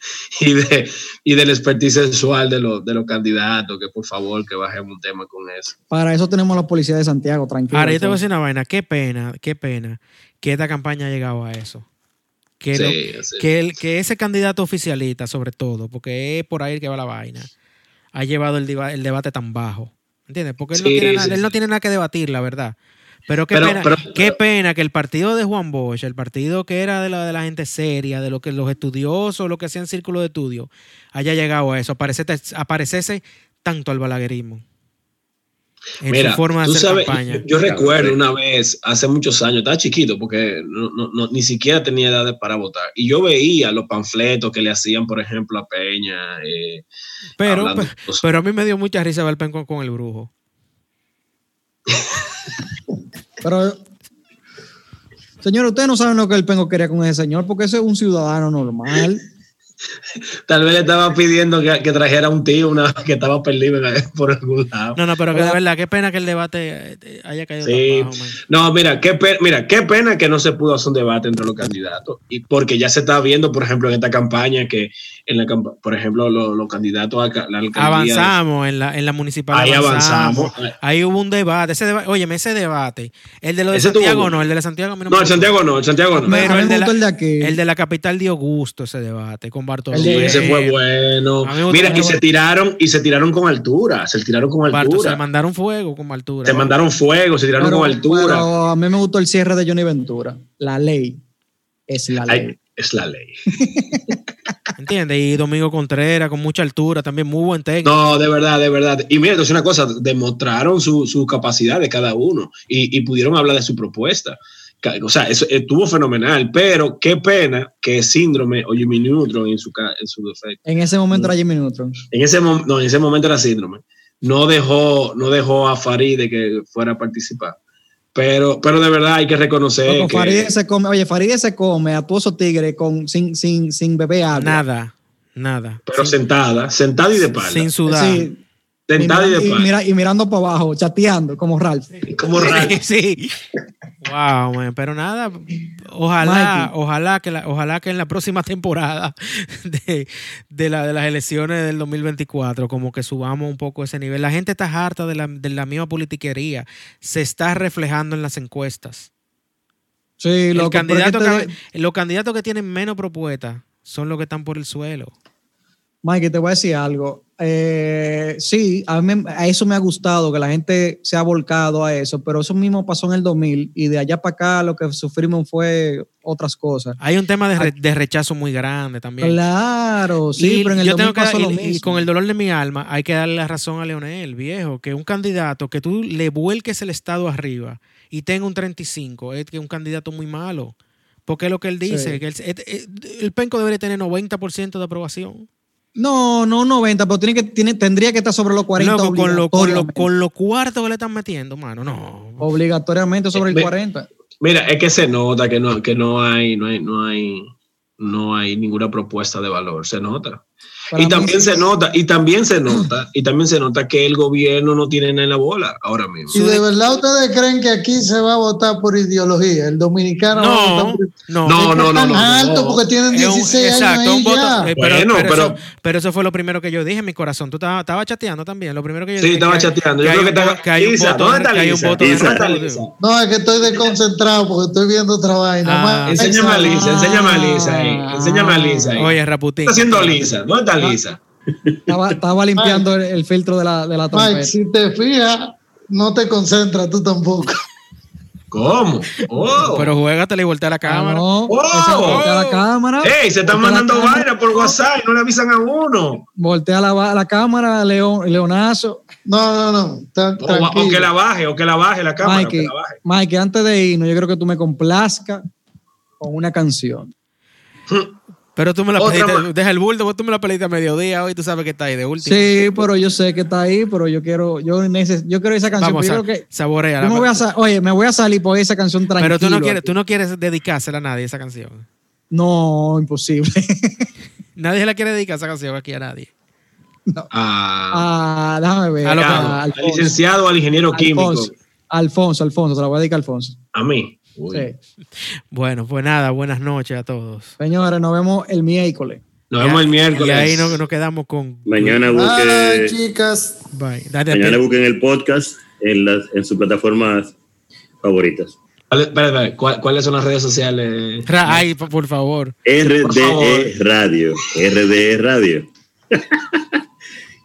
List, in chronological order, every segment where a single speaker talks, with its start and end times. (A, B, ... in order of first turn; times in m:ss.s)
0:00.4-0:05.7 A
0:05.9-0:08.2 B
0:07.7-0:11.8 C
0:12.6-0:17.5 C
0:12.7-0:13.5 A
0:18.1-0:22.7 C
0:20.7-0:21.5 A
0:23.3-0:34.6 C
0:23.5-0:24.4 A
0:36.0-0:37.5 C
0:36.1-0:46.8 A
0:37.5-0:38.2 D
0:47.4-0:50.3 C
0:47.4-0:48.2 A
0:53.4-0:53.8 B
0:55.4-0:59.2 B
1:00.5-1:05.0 A
1:05.0-1:08.4 C
1:07.6-1:18.3 A
1:17.7-1:25.5 C
1:19.5-1:20.7 A
1:23.7-1:24.3 A
1:25.1-1:26.4 A
1:26.2-1:30.8 C
1:26.3-1:27.6 B
1:29.9-1:30.5 B
1:29.9-1:35.2 A
1:31.4-1:32.2 C
1:31.8-1:32.2 B
1:34.7-1:36.7 C
1:36.4-1:38.5 A
1:37.6-1:41.2 B
1:41.9-1:42.5 B
1:42.2-1:43.7 A
1:43.6-1:44.1 B
1:44.8-1:48.0 C
1:47.8-2:01.3 A
2:00.6-2:02.0 B
2:02.1-2:07.6 A
2:08.1-2:10.5 A
2:09.8-2:14.6 B
2:14.4-2:16.1 C
2:15.9-2:17.7 A
2:17.3-2:18.3 C
2:17.8-2:18.4 B
2:18.9-2:19.7 A
2:19.0-2:21.9 B
2:22.1-2:22.8 A
2:22.4-2:23.3 C
2:24.0-2:39.1 C
2:26.2-2:26.7 B
2:40.2-2:41.5 B
2:40.5-2:45.1 C
2:46.0-2:57.0 B
2:57.0-2:59.4 C
2:59.2-3:02.0 B
3:00.4-3:10.7 C
3:11.3-3:15.5 C
3:11.8-3:12.2 B
3:16.0-3:20.1 B
3:18.8-3:22.5 C
3:22.4-3:24.1 B
3:23.3-3:23.7 A
3:24.4-3:36.3 A
3:30.9-3:31.7 B
3:36.3-3:36.6 C
3:36.3-3:44.7 E
3:40.3-3:42.2 C
3:41.4-3:42.8 A
3:43.1-3:52.8 C
3:44.8-3:45.6 A
3:49.2-3:52.9 A
3:52.0-3:52.4 D
3:53.0-3:57.0 E
3:55.6-3:56.2 C
3:56.1-3:59.1 A
3:56.5-3:59.0 B
3:59.0-4:00.2 C
3:59.6-4:01.2 A
4:01.9-4:04.5 B
4:02.6-4:02.8 E
4:04.1-4:07.6 E
4:08.5-4:09.9 A
4:09.7-4:11.3 C
4:10.8-4:14.8 B
4:11.5-4:12.3 A
4:12.0-4:12.6 C
4:13.0-4:16.2 A
4:16.4-4:19.0 B
4:19.3-4:21.1 E
4:20.4-4:23.0 A
4:22.2-4:25.4 B
4:26.2-4:27.1 B
4:27.9-4:28.2 A
4:28.6-4:32.8 C
4:29.0-4:29.5 A
4:32.2-4:36.4 B
4:35.8-4:37.4 C
4:37.0-4:39.9 B
4:39.2-4:41.8 C
4:42.3-4:44.1 B
4:44.6-4:46.3 C
4:47.3-4:48.1 A
4:47.9-4:50.2 B
4:49.0-4:49.6 C
4:49.2-4:51.5 A
4:50.9-4:53.6 B
4:53.7-4:54.7 A
4:54.5-4:54.8 B
4:55.5-4:57.5 C
4:57.6-4:59.2 B
4:59.5-5:00.8 A
4:59.6-5:02.0 C
5:01.6-5:03.0 D
5:02.1-5:03.6 E
5:03.7-5:04.6 C
5:04.3-5:07.3 D
5:08.0-5:08.6 D
5:08.9-5:11.6 A
5:11.2-5:12.5 C
5:12.6-5:16.6 D
5:13.0-5:13.7 A